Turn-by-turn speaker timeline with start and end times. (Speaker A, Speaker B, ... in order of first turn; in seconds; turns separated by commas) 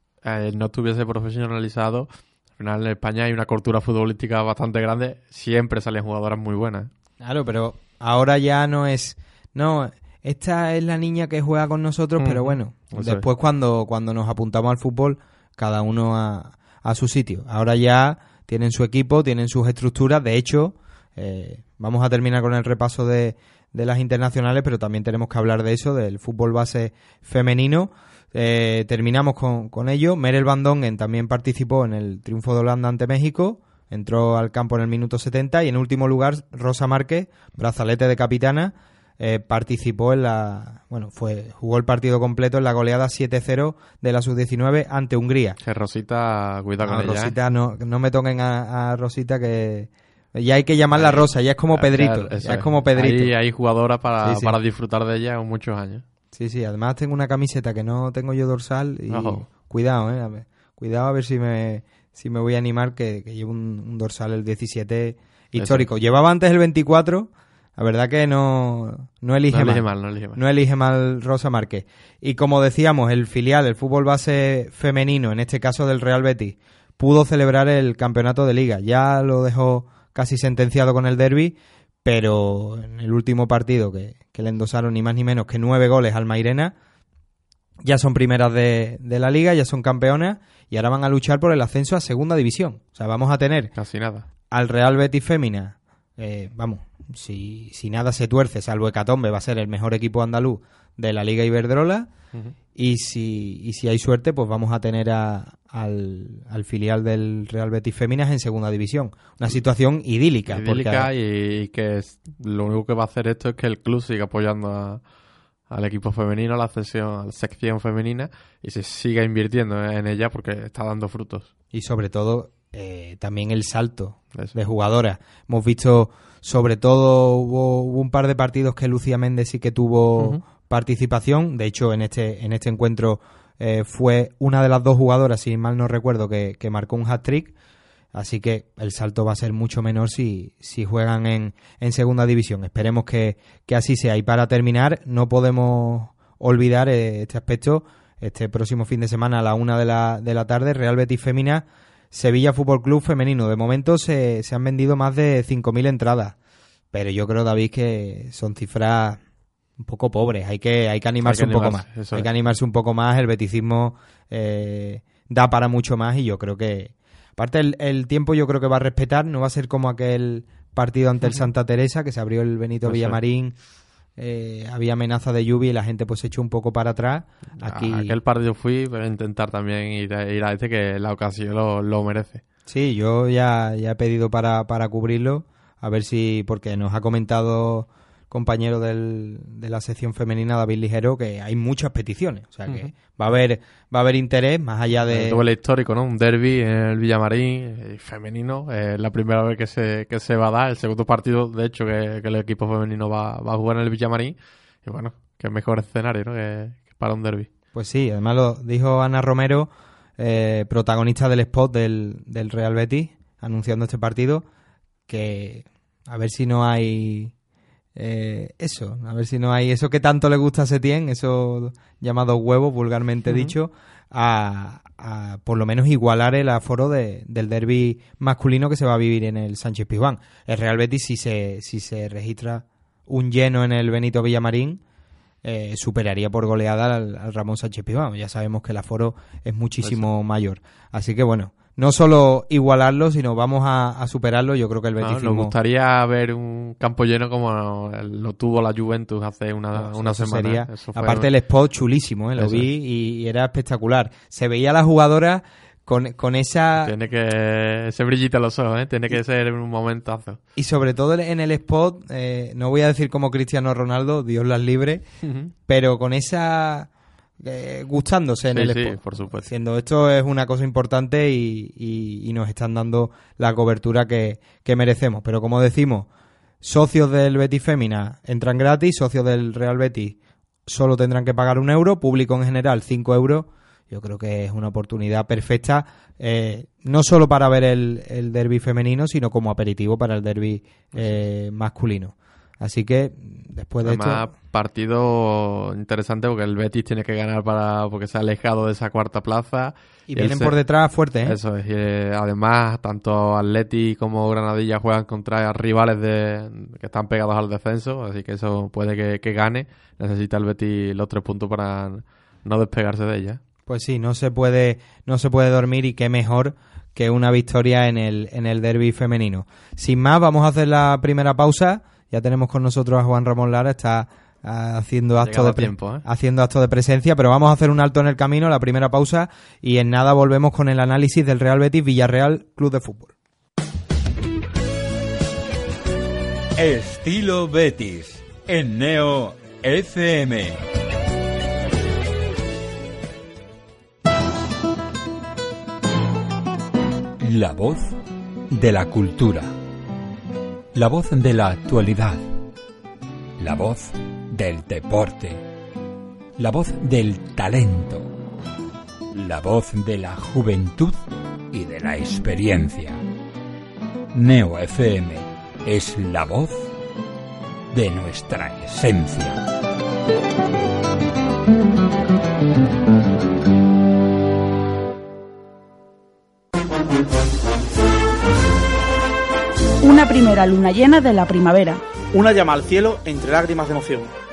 Speaker A: 0.2-6.9, Speaker B: 7.2-45.6, Speaker A: 12.2-13.2, Speaker A: 45.6-47.3, Speaker B: 46.8-53.3, Speaker A: 50.9-56.0, Speaker B: 54.2-54.6, Speaker B: 56.3-86.7, Speaker A: 59.1-59.4, Speaker A: 65.5-65.9, Speaker A: 69.5-70.4, Speaker B: 87.8-93.7, Speaker A: 93.8-94.2, Speaker B: 94.5-102.1, Speaker B: 102.7-111.1, Speaker A: 110.5-115.0, Speaker A: 115.7-121.5, Speaker B: 121.7-137.5, Speaker B: 138.1-156.3, Speaker B: 156.9-159.2, Speaker B: 159.8-173.6, Speaker A: 161.2-162.3, Speaker A: 171.2-171.5, Speaker A: 172.8-173.2, Speaker B: 174.2-178.2, Speaker A: 177.6-182.4, Speaker B: 182.7-195.4, Speaker A: 195.0-207.5, Speaker B: 207.7-214.4, Speaker B: 215.1-217.3, Speaker B: 217.9-234.8, Speaker A: 223.3-223.5, Speaker B: 235.4-245.5, Speaker A: 245.0-251.3, Speaker B: 249.7-256.9, Speaker A: 252.4-252.7, Speaker A: 256.8-260.4, Speaker B: 260.5-265.0, Speaker A: 265.2-265.5, Speaker B: 265.7-276.1, Speaker A: 268.5-269.5, Speaker B: 276.6-294.3, Speaker A: 293.8-300.6, Speaker B: 300.1-301.4, Speaker A: 301.2-313.4, Speaker B: 313.7-333.1, Speaker A: 325.2-326.1, Speaker C: 336.6-340.5, Speaker C: 347.2-348.0, Speaker C: 348.5-349.5, Speaker C: 350.7-352.2, Speaker C: 353.4-355.4, Speaker C: 356.4-358.1, Speaker C: 359.1-363.0, Speaker C: 364.1-366.7, Speaker C: 367.7-369.4, Speaker D: 379.8-381.8, Speaker E: 382.1-384.1